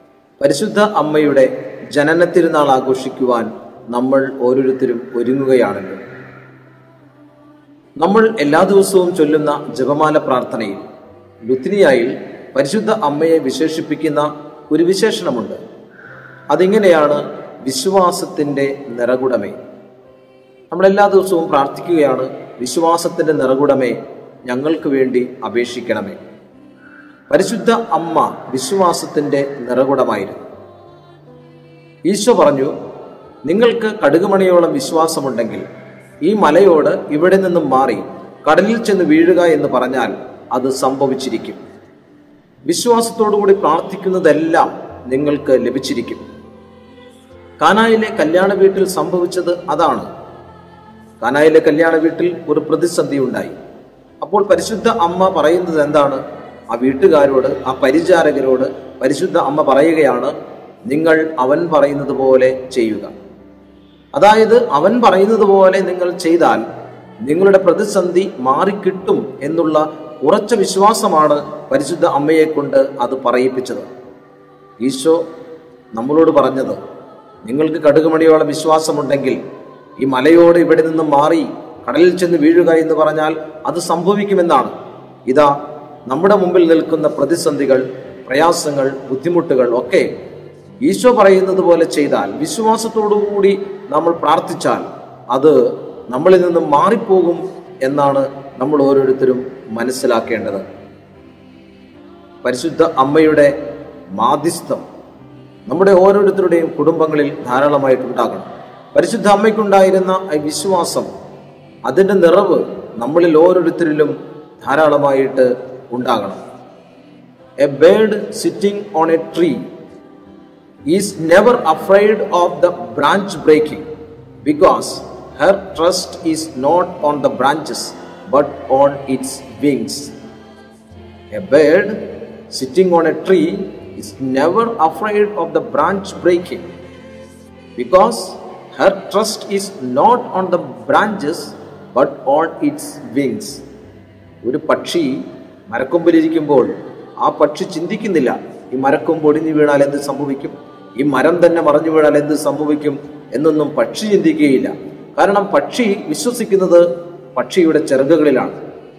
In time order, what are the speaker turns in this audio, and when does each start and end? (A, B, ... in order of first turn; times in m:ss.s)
0:00.4-0:06.0 A
0:08.0-0:10.8 A
0:11.4-0:15.6 A
0:16.5-0:19.6 A
0:20.7-0:26.2 A
0:27.3-0:30.4 A
0:32.1-0:32.7 A
0:33.4-0:35.6 A
0:36.2-0:41.6 A
0:42.7-0:46.2 A
0:47.6-0:50.1 A
0:51.2-0:53.5 A
0:54.2-1:00.3 A
1:00.9-1:03.1 A
1:04.1-1:06.6 A
1:07.2-1:13.8 A
1:14.8-1:15.2 A
1:15.9-1:16.8 A
1:17.4-1:19.4 A
1:20.0-1:24.7 A
1:25.3-1:25.5 A
1:26.1-1:30.1 A
1:30.8-1:35.6 A
1:36.1-1:40.6 A
1:42.4-1:43.5 A
1:44.2-1:44.8 A
1:45.7-1:51.1 A
1:51.8-1:56.4 A
1:57.6-1:59.6 A
2:00.9-2:03.8 A
2:04.4-2:10.1 A
2:11.3-2:16.6 A
2:17.8-2:23.6 A
2:24.4-2:38.6 A